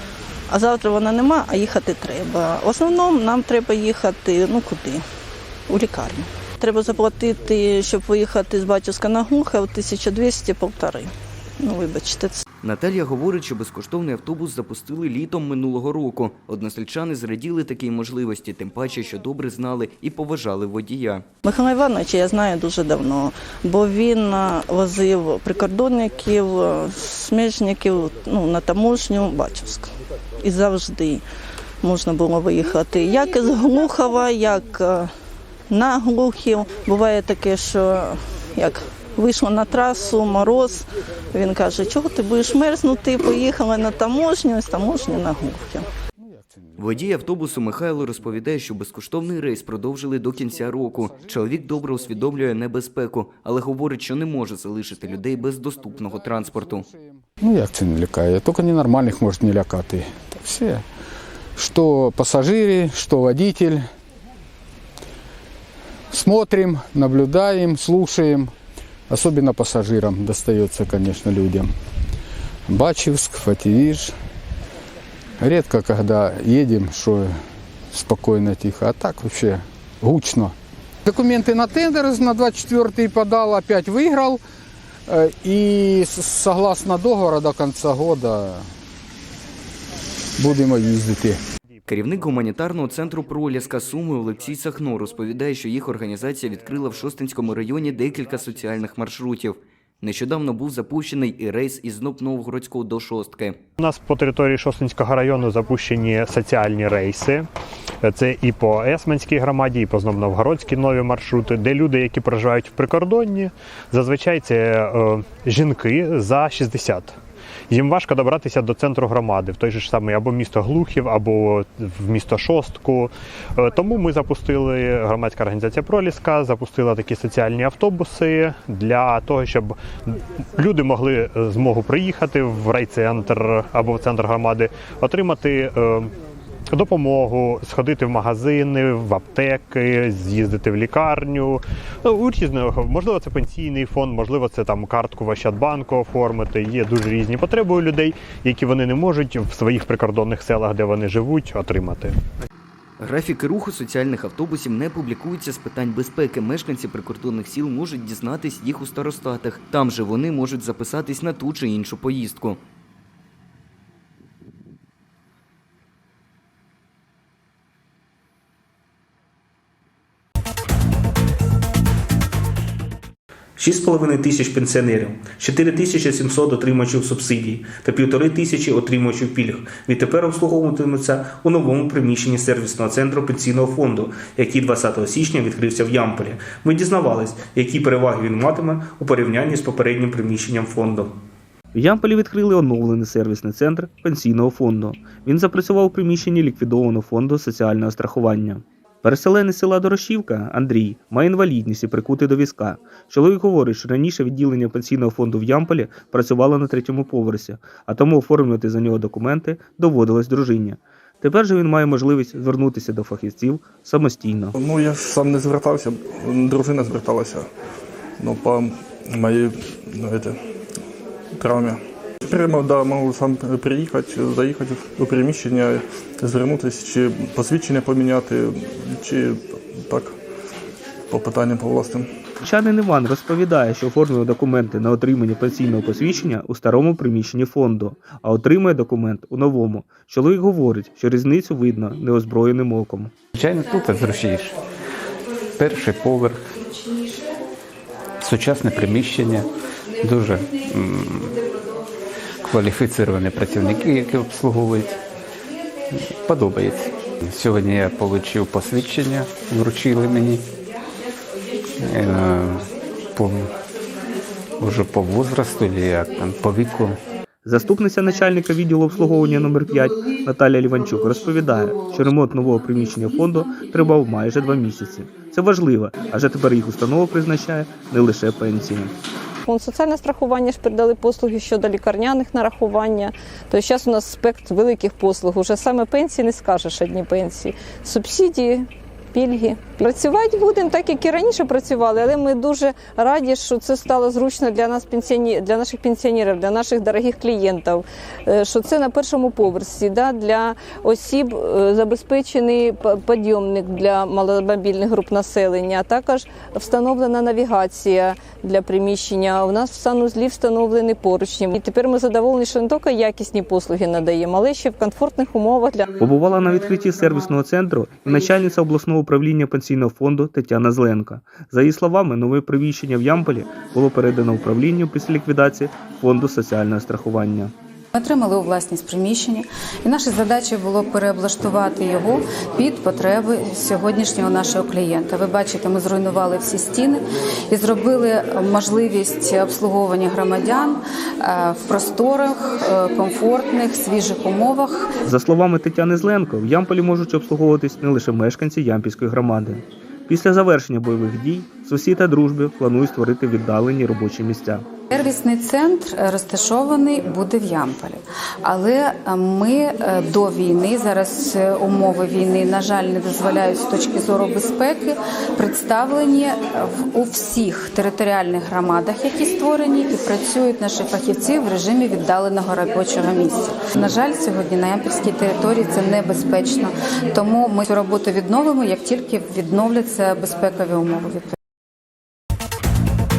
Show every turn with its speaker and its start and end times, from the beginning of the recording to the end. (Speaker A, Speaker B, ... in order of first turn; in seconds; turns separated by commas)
Speaker A: 0.5-5.0, Speaker A: 5.7-12.4, Speaker B: 12.6-21.2, Speaker A: 21.4-31.2, Speaker A: 31.8-35.1, Speaker A: 35.7-45.9, Speaker C: 46.2-46.8, Speaker B: 46.8-56.9, Speaker C: 56.2-60.8, Speaker C: 61.6-63.9, Speaker C: 66.1-68.5, Speaker C: 69.1-71.7, Speaker C: 72.7-74.1, Speaker C: 75.4-77.4, Speaker C: 77.9-80.5, Speaker C: 81.1-84.4, Speaker C: 85.1-88.7, Speaker C: 90.4-91.4, Speaker B: 91.9-103.6, Speaker D: 103.8-107.5, Speaker D: 108.0-117.1, Speaker D: 117.7-129.8, Speaker D: 130.6-136.1, Speaker D: 136.7-152.1, Speaker B: 153.0-162.6, Speaker E: 173.6-191.1, Speaker E: 191.7-214.5, Speaker F: 214.6-217.5, Speaker F: 218.2-220.4, Speaker F: 221.4-230.2, Speaker F: 231.1-232.1, Speaker E: 232.4-243.1, Speaker G: 243.5-244.4, Speaker G: 245.6-246.3, Speaker G: 248.2-249.4, Speaker G: 250.0-251.2, Speaker G: 252.4-254.9, Speaker G: 256.2-260.4, Speaker G: 261.9-262.6, Speaker G: 264.6-267.0, Speaker E: 267.4-278.9, Speaker H: 279.5-315.9, Speaker E: 316.0-327.5, Speaker I: 327.9-337.0, Speaker I: 337.5-344.9, Speaker E: 345.1-354.6, Speaker I: 354.9-381.3